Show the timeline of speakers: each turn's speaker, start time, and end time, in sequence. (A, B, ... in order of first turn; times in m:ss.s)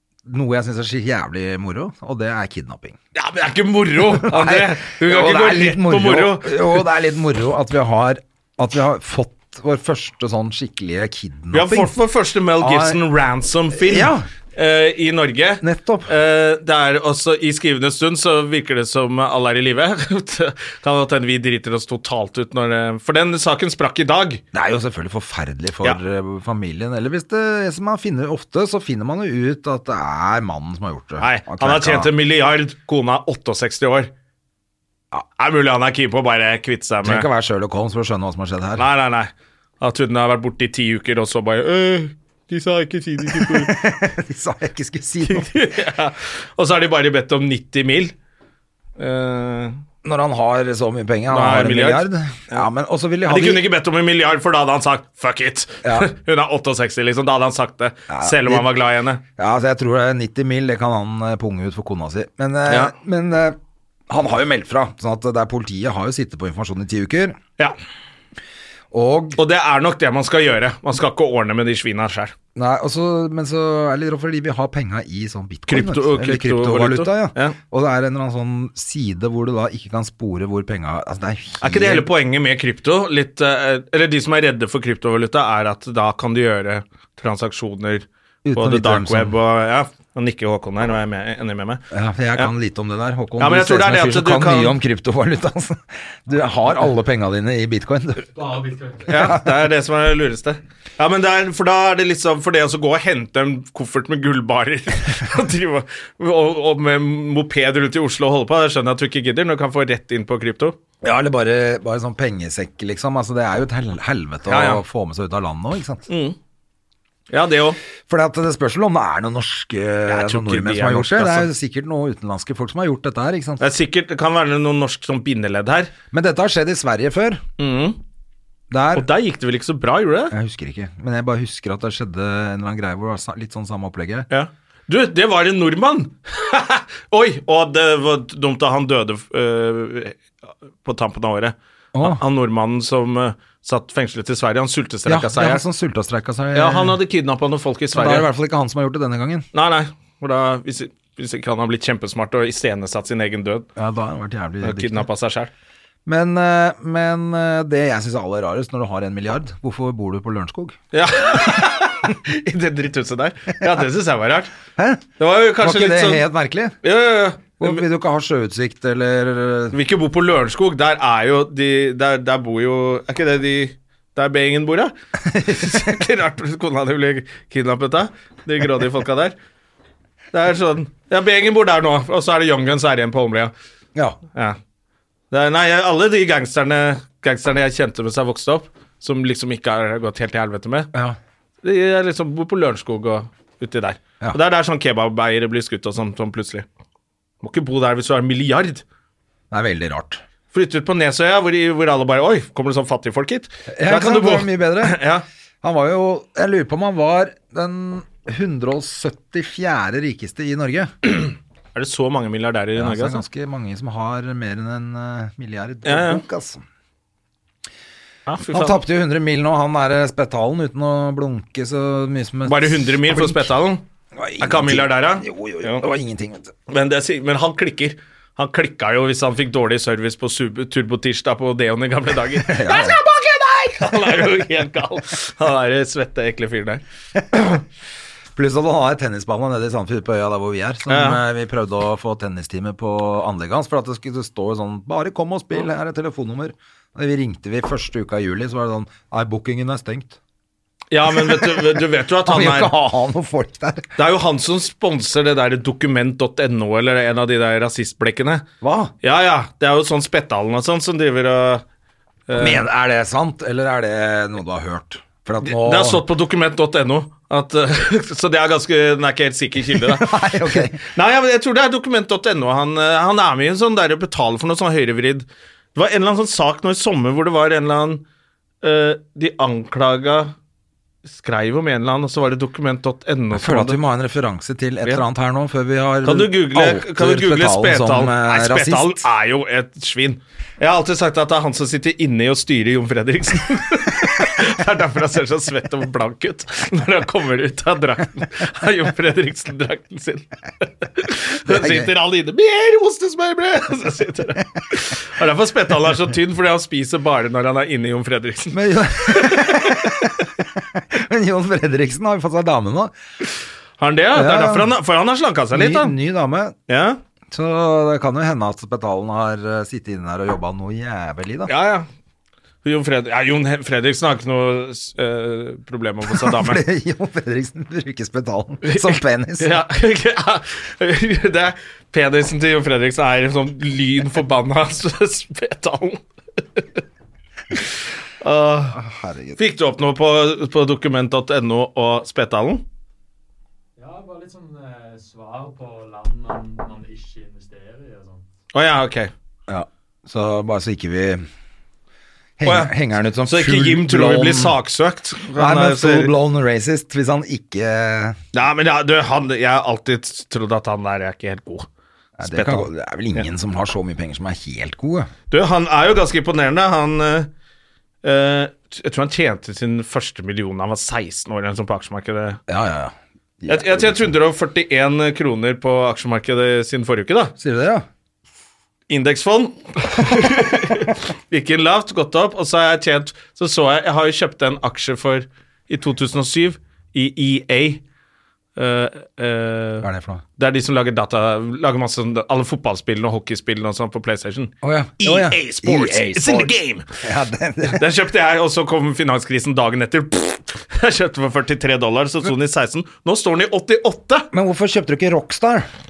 0:00.2-0:03.0 A
0:03.2-0:06.8 B
0:04.0-0:11.9 A
0:11.5-0:24.4 B
0:12.6-0:13.0 A
0:13.8-0:14.3 A
0:15.6-0:16.1 A
0:24.5-0:32.1 A
0:31.2-0:34.1 B
0:35.4-0:37.3 B
0:37.0-0:38.9 A
0:38.8-0:43.8 B
0:43.3-0:45.5 A
0:45.2-0:48.1 B
0:49.0-0:49.8 B
0:50.0-0:53.6 A
0:51.3-0:52.7 B
0:53.3-0:59.2 B
0:55.8-0:56.1 A
0:58.1-0:58.7 A
0:59.4-1:03.6 A
1:02.7-1:02.9 B
1:04.1-1:07.4 A
1:08.9-1:09.4 A
1:09.4-1:12.3 B
1:12.6-1:22.1 A
1:15.7-1:17.6 B
1:21.6-1:31.8 B
1:28.4-1:29.3 A
1:31.9-1:38.3 A
1:33.4-1:34.8 B
1:38.4-1:39.1 C
1:39.1-1:50.8 B
1:39.1-1:39.5 A
1:51.0-1:56.1 A
1:54.5-1:54.8 B
1:56.1-1:56.4 B
1:57.3-1:57.8 B
1:58.1-2:03.6 A
2:00.1-2:01.5 B
2:03.6-2:05.9 B
2:06.1-2:07.4 A
2:07.6-2:08.0 B
2:08.7-2:09.1 A
2:09.0-2:10.4 B
2:10.3-2:14.3 A
2:14.3-2:20.3 B
2:20.8-2:25.6 B
2:21.9-2:22.2 A
2:25.1-2:27.0 A
2:26.5-2:28.3 B
2:27.9-2:29.5 A
2:29.5-2:33.7 B
2:33.8-2:35.1 A
2:34.6-2:35.5 B
2:36.1-2:40.8 A
2:40.9-2:44.5 B
2:44.8-2:45.0 A
2:45.2-2:46.2 B
2:45.6-2:46.8 A
2:46.8-2:47.8 B
2:47.6-2:49.8 A
2:49.7-2:54.9 B
2:55.2-2:56.0 A
2:55.5-2:59.4 B
3:00.3-3:03.5 B
3:05.3-3:10.9 B
3:10.9-3:11.2 A
3:11.6-3:16.7 B
3:17.4-3:18.8 B
3:19.5-3:20.2 A
3:20.5-3:25.2 B
3:23.7-3:25.0 A
3:25.6-3:30.9 A
3:31.1-3:33.2 B
3:32.8-3:36.6 A
3:35.8-3:36.2 B
3:38.3-3:38.8 B
3:38.5-3:43.5 A
3:42.5-3:43.8 B
3:44.2-3:46.5 A
3:44.4-3:45.8 B
3:46.7-3:56.8 B
3:52.5-3:53.0 A
3:53.8-3:54.2 A
3:58.4-4:10.2 A
4:00.9-4:01.2 B
4:10.9-4:12.7 B
4:11.1-4:13.9 A
4:14.0-4:18.4 B
4:18.6-4:18.9 A
4:19.0-4:21.6 B
4:22.3-4:22.6 B
4:22.4-4:26.0 A
4:25.4-4:38.0 B
4:29.8-4:30.8 A
4:38.6-4:40.3 B
4:41.1-4:43.8 B
4:43.3-4:49.1 A
4:46.0-5:10.1 B
5:01.5-5:01.9 A
5:08.5-5:12.9 A
5:13.8-5:15.9 B
5:14.1-5:14.8 A
5:15.5-5:16.6 A
5:16.7-5:17.0 B
5:17.3-5:21.5 A
5:21.5-5:21.9 B
5:22.6-5:26.6 B
5:26.1-5:29.6 A
5:28.6-5:36.0 B
5:36.6-5:36.8 B
5:37.5-5:38.8 B
5:38.7-5:39.4 A
5:39.4-5:42.6 B
5:43.8-5:48.2 C
5:48.5-5:49.1 B
5:49.5-5:51.2 A
5:52.4-5:54.6 A
5:52.4-5:52.7 B
5:53.2-5:56.1 B
5:55.4-5:58.2 A
5:58.3-6:01.7 B
6:02.2-6:05.1 A
6:02.2-6:02.7 B
6:05.3-6:07.3 B
6:08.0-6:12.4 B
6:12.5-6:14.2 A
6:13.5-6:17.3 B
6:17.4-6:17.8 A
6:18.9-6:27.8 B
6:28.6-6:29.9 B
6:29.8-6:30.2 A
6:30.4-6:36.8 B
6:34.6-6:37.9 A
6:37.7-6:44.3 B
6:44.3-6:45.7 A